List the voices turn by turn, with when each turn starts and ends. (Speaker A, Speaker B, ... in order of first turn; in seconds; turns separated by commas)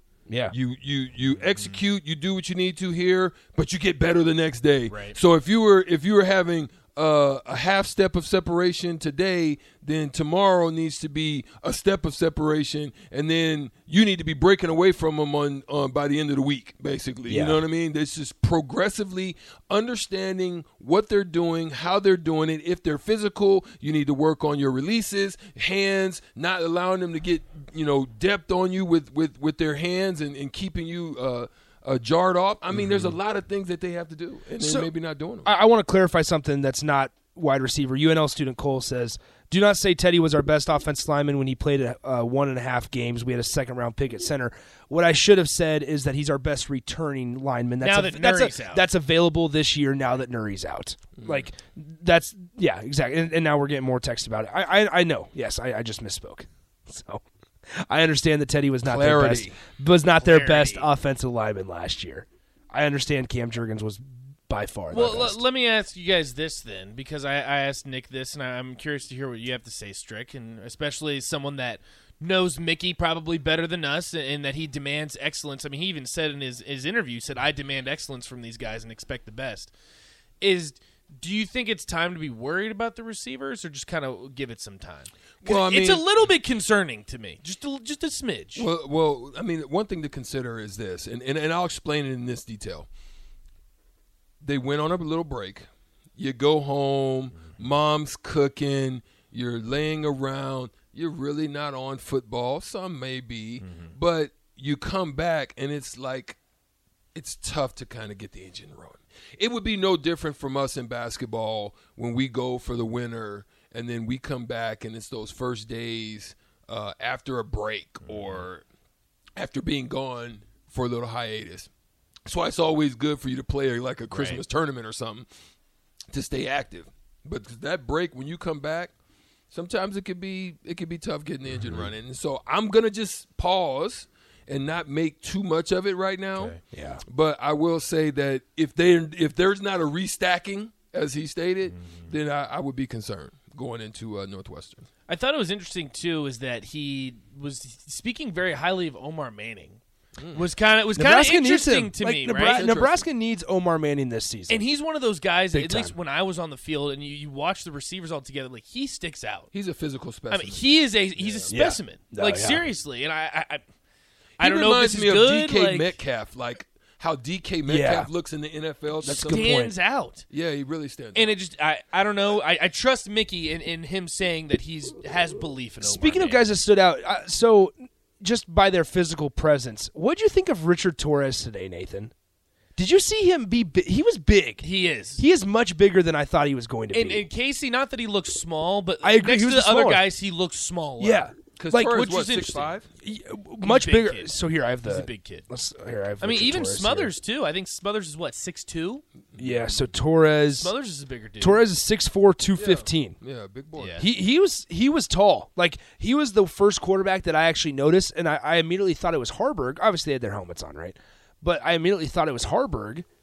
Speaker A: 0.3-0.6, Speaker B: 0.5-35.5, Speaker C: 1.4-1.8, Speaker C: 4.9-5.2, Speaker A: 17.3-17.6, Speaker A: 32.7-33.1, Speaker A: 34.6-34.9, Speaker A: 35.5-57.2, Speaker C: 47.8-48.9, Speaker B: 51.2-51.5, Speaker A: 57.9-65.4, Speaker B: 58.8-59.6, Speaker C: 60.2-60.9, Speaker C: 64.9-79.7, Speaker C: 80.4-88.7, Speaker B: 85.4-86.1, Speaker B: 88.5-92.9, Speaker B: 94.4-106.4, Speaker C: 103.6-104.0, Speaker B: 107.2-118.6, Speaker C: 118.1-118.4, Speaker B: 119.4-121.7, Speaker B: 122.3-125.3, Speaker C: 124.1-124.4, Speaker B: 126.1-128.9, Speaker B: 129.5-144.9, Speaker A: 136.7-137.0, Speaker C: 141.8-142.1, Speaker C: 145.1-149.8, Speaker B: 150.2-150.5, Speaker C: 150.3-152.7, Speaker A: 151.0-154.7, Speaker B: 152.4-153.1, Speaker C: 154.5-159.5, Speaker A: 155.5-156.0, Speaker B: 159.5-161.5, Speaker C: 160.3-163.7, Speaker A: 161.5-162.7, Speaker B: 164.4-169.7, Speaker C: 164.4-166.0, Speaker A: 167.7-168.1, Speaker A: 169.0-169.8, Speaker C: 169.1-170.3, Speaker B: 170.3-171.4, Speaker C: 171.1-176.4, Speaker A: 175.8-182.1, Speaker A: 182.8-187.3, Speaker C: 184.6-185.2, Speaker C: 186.9-192.8, Speaker A: 189.0-190.1, Speaker A: 191.0-192.0, Speaker B: 191.5-192.9, Speaker A: 193.0-197.1, Speaker C: 193.6-195.4, Speaker C: 196.2-199.0, Speaker B: 199.3-199.8, Speaker A: 199.4-200.7, Speaker C: 200.5-201.6, Speaker A: 201.4-203.2, Speaker B: 202.5-204.0, Speaker C: 203.8-204.1, Speaker A: 204.0-213.1